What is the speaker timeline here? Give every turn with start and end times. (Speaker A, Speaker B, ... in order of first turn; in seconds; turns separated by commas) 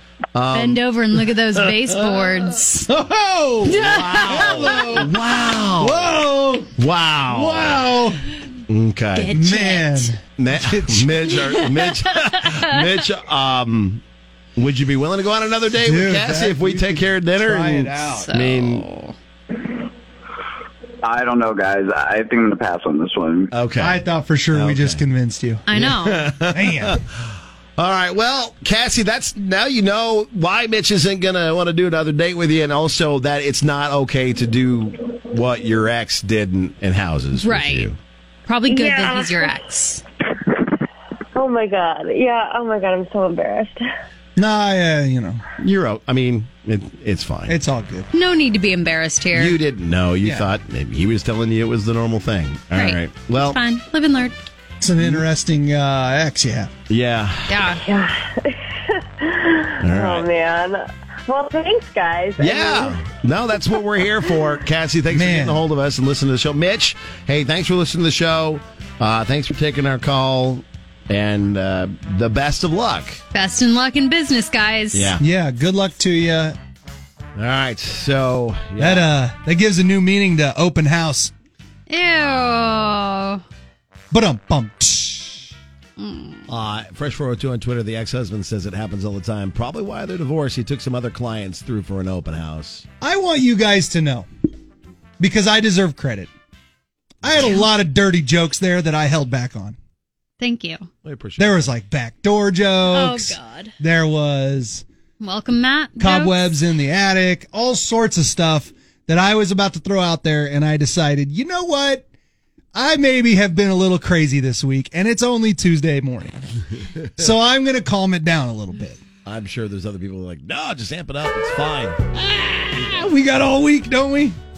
Speaker A: 0.3-0.8, Speaker B: 0.5-2.9, Speaker C: 2.9-5.1, Speaker B: 3.7-5.1, Speaker A: 3.8-6.1, Speaker C: 5.8-8.4, Speaker A: 6.8-7.9, Speaker A: 8.7-9.4, Speaker B: 9.1-10.2, Speaker C: 9.3-11.2, Speaker A: 10.4-14.0, Speaker B: 11.3-13.1, Speaker A: 14.6-18.9, Speaker C: 15.8-18.3, Speaker B: 18.1-19.1, Speaker D: 21.0-23.5, Speaker A: 23.5-24.0, Speaker C: 23.8-25.7, Speaker A: 24.5-25.0, Speaker B: 25.7-26.3, Speaker A: 25.8-27.2, Speaker C: 26.5-27.0, Speaker A: 27.8-38.0, Speaker B: 37.3-37.9, Speaker B: 38.5-40.0, Speaker E: 38.7-39.5, Speaker E: 41.4-43.8, Speaker C: 44.4-45.4, Speaker A: 45.6-47.6, Speaker C: 47.5-48.1, Speaker B: 48.1-49.6, Speaker A: 49.3-53.6, Speaker C: 50.2-50.5, Speaker B: 52.7-54.3, Speaker C: 54.8-56.7, Speaker A: 56.9-57.6, Speaker B: 57.5-57.8, Speaker E: 57.8-63.0, Speaker A: 59.8-60.3, Speaker A: 62.4-73.2, Speaker C: 65.1-65.6, Speaker B: 73.3-75.2, Speaker A: 74.9-75.2, Speaker C: 75.2-76.6, Speaker A: 77.4-79.0, Speaker C: 78.8-81.3, Speaker B: 81.9-83.4, Speaker C: 84.1-85.5, Speaker B: 86.0-86.5, Speaker A: 86.5-92.9, Speaker C: 93.0-94.3, Speaker C: 95.2-96.3, Speaker C: 97.2-99.8, Speaker B: 100.4-100.9, Speaker A: 101.0-101.7, Speaker C: 101.4-104.8, Speaker B: 102.8-103.7, Speaker B: 105.2-106.6, Speaker C: 106.0-112.1, Speaker C: 112.8-116.4, Speaker C: 117.2-119.0, Speaker A: 119.2-122.0, Speaker C: 122.2-124.4, Speaker A: 122.8-123.0